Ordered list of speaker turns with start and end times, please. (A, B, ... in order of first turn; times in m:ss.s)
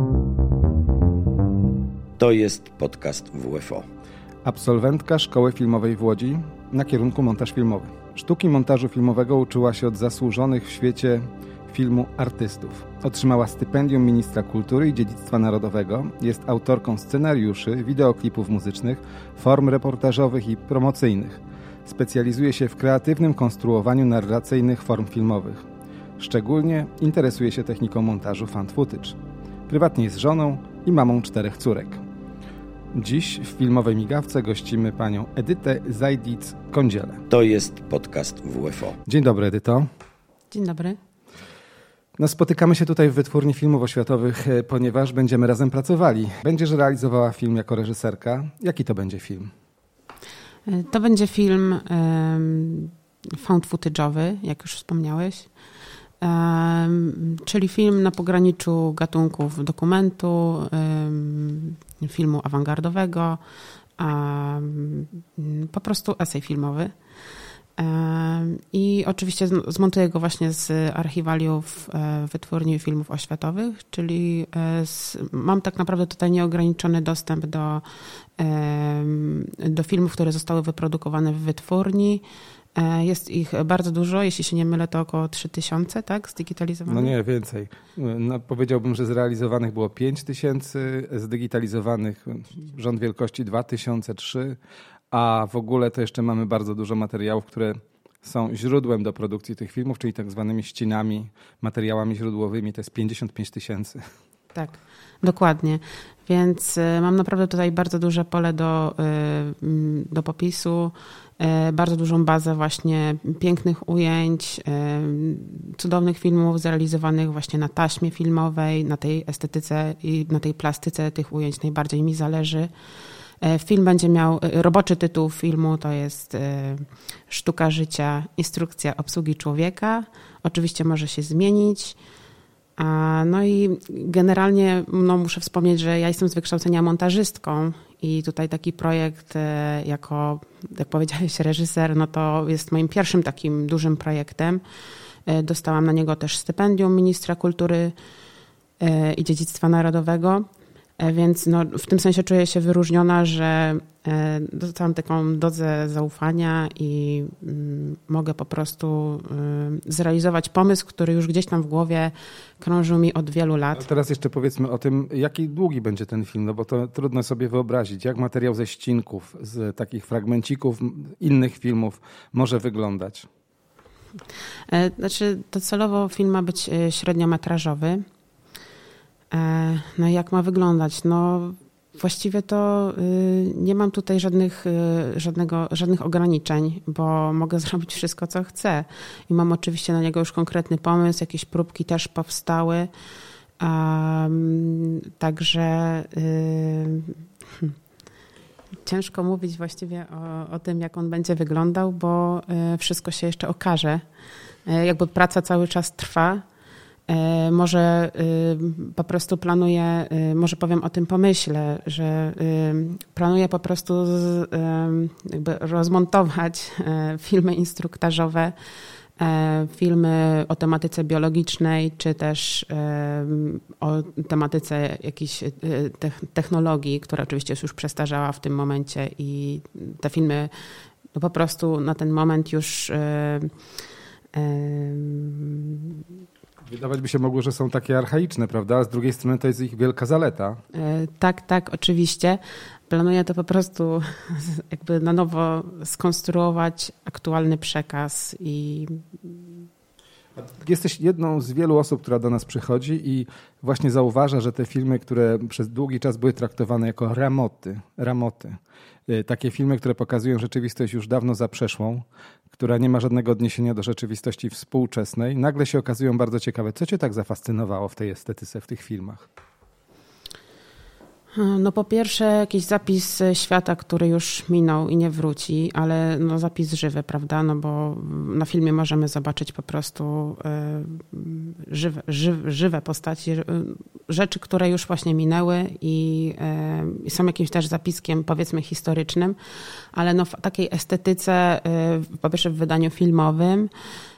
0:02.2-0:03.8 A
0:04.4-0:25.7 B
0:26.2-0:32.0 B
0:32.9-0:37.3 B
0:37.3-0:39.0 A
0:39.1-0:39.9 B
0:40.5-0:41.0 C
0:42.2-0:49.5 B
0:50.7-0:55.5 C
0:56.2-1:03.4 C
1:04.0-1:06.9 C
1:07.8-1:17.8 C
1:18.4-1:22.2 C
1:22.8-1:27.1 C
1:26.9-1:34.6 B
1:35.1-1:44.0 B
1:44.5-2:02.7 C
2:03.4-2:12.0 C
2:12.8-2:24.6 C
2:25.3-2:28.0 C
2:28.8-2:30.5 C
2:31.0-2:43.9 C
2:43.7-2:53.3 B
2:54.7-2:58.0 C
2:59.3-3:12.9 C
3:13.6-3:17.8 C
3:18.8-3:24.0 C
3:24.7-3:26.4 C
3:27.1-3:38.6 C
3:39.2-3:50.5 C
3:51.1-3:53.5 C
3:54.3-3:56.1 C
3:56.7-4:00.6 B
4:00.7-4:09.7 C
4:10.4-4:29.3 B
4:31.3-4:53.7 C